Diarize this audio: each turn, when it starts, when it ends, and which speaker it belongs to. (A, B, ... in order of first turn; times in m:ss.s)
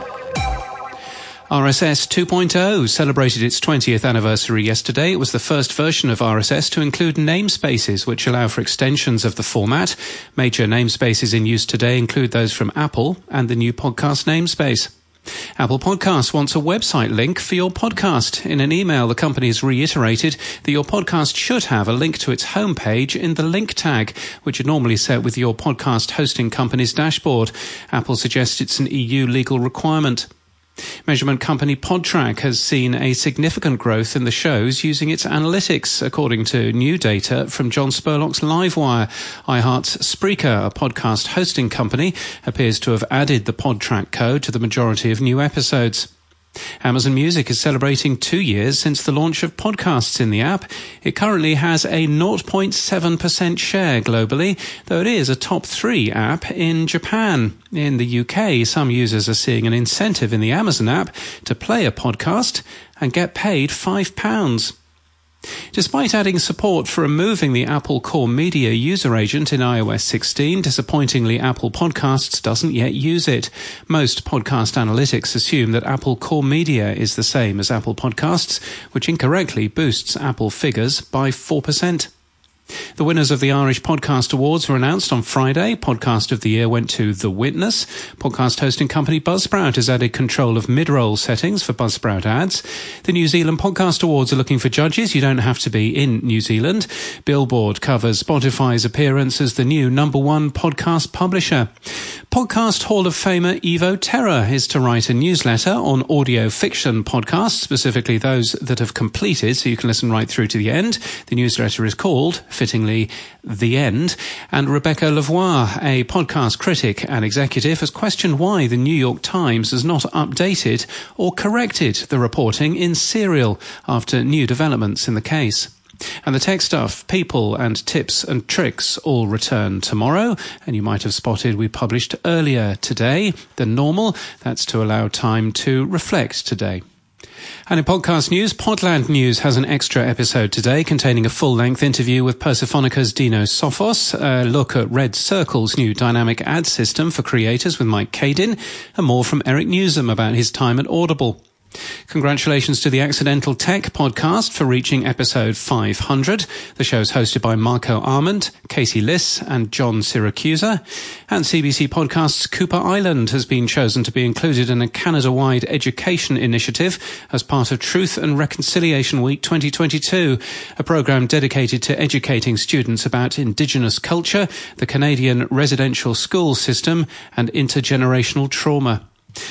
0:01.5-0:14.9 A
0:15.6-0:30.3 A
0:31.1-0:46.1 A
0:46.8-1:04.7 A
1:05.7-1:22.1 A
1:23.0-1:41.7 A
1:42.3-2:05.7 A
2:06.2-2:16.8 A
2:17.7-2:31.4 A
2:32.1-2:59.0 A